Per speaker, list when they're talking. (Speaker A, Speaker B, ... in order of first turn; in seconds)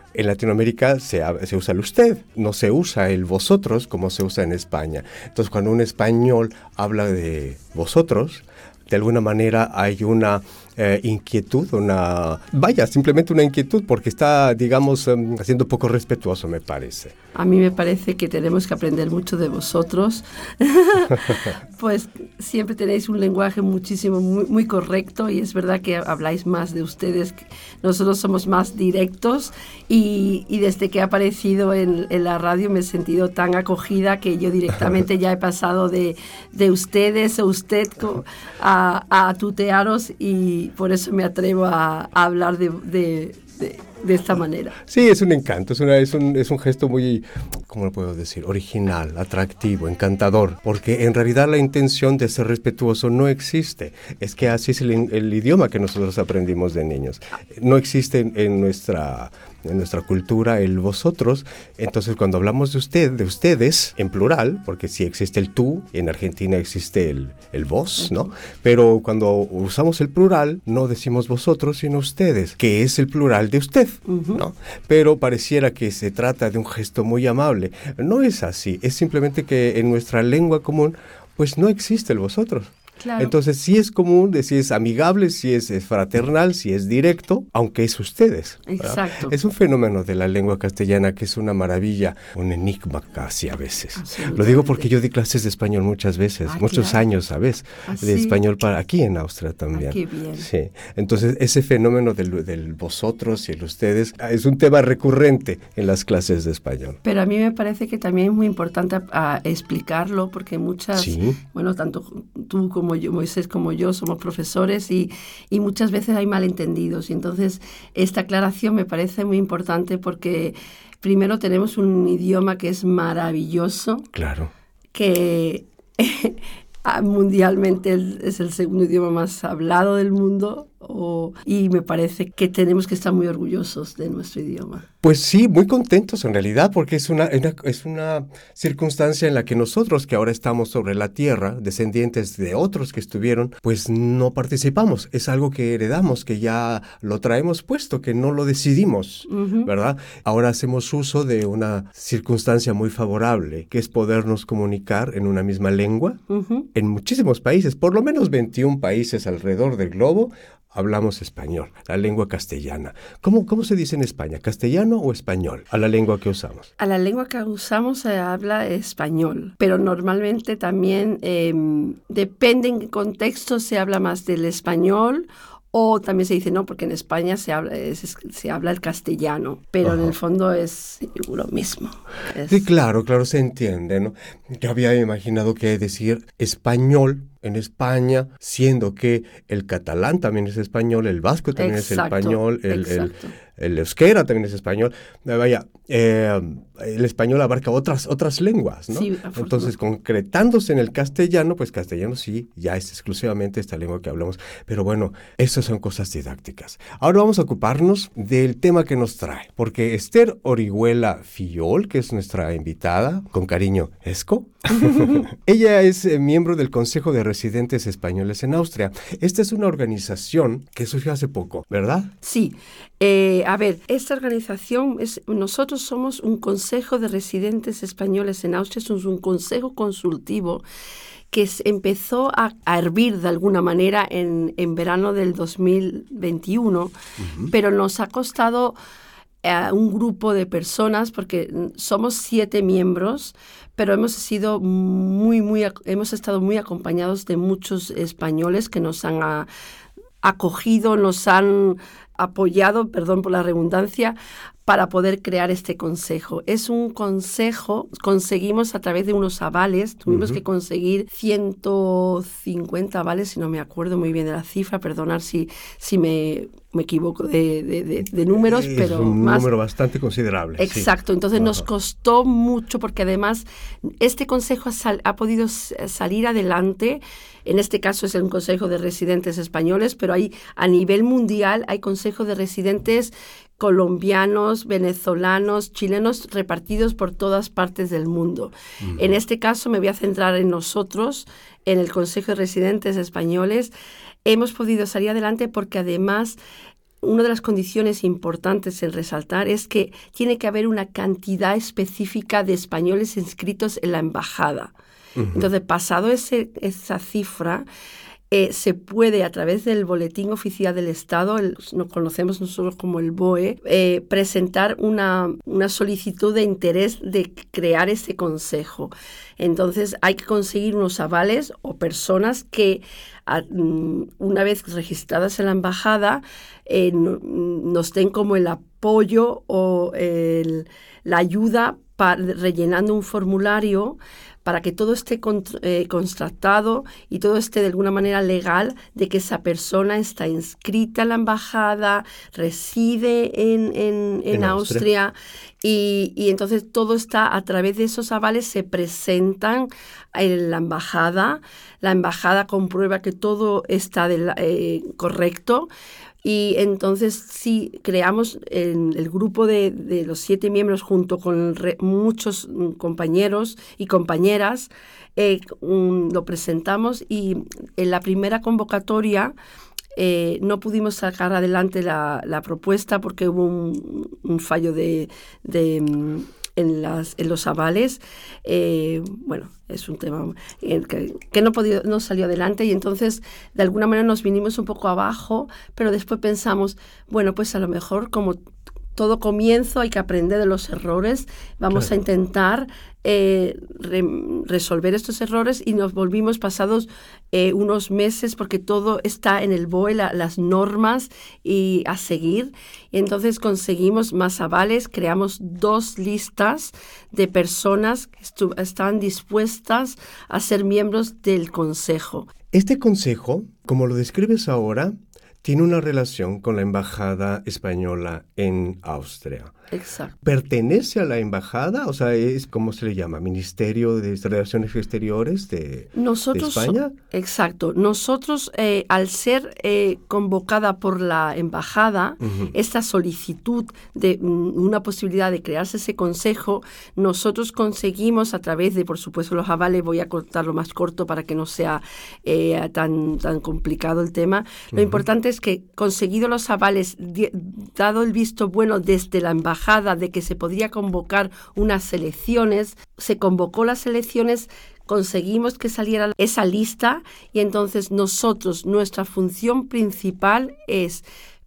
Speaker A: 0.1-17.2, 44.9-107.0, 111.0-111.4, 124.1-124.5, 135.0-156.2, 156.8-166.7, 179.8-180.2, 182.5-222.1, 237.2-237.5, 260.1-260.4, 268.3-271.6, 305.2-305.5, 344.3-344.9, 412.5-419.5, 420.2-426.9, 432.2-432.5, 444.7-445.0
Speaker B: 17.3-44.8, 68.0-68.3, 74.1-74.4, 83.0-83.3, 88.7-89.3, 94.0-94.9, 96.5-97.0, 97.9-98.4, 99.8-100.5, 107.0-124.1, 124.9-134.9, 149.3-149.7, 156.3-156.7, 166.8-182.6, 191.6-193.3, 198.9-199.7, 214.7-215.2, 222.2-230.6, 231.3-236.9, 237.5-238.8, 239.4-249.5, 250.2-254.2, 254.7-269.5, 270.6-293.7, 294.2-296.4, 297.0-304.7, 305.3-307.7, 308.3-355.7, 356.2-369.3, 370.0-388.4, 389.0-412.3, 419.7-420.2, 425.9-461.1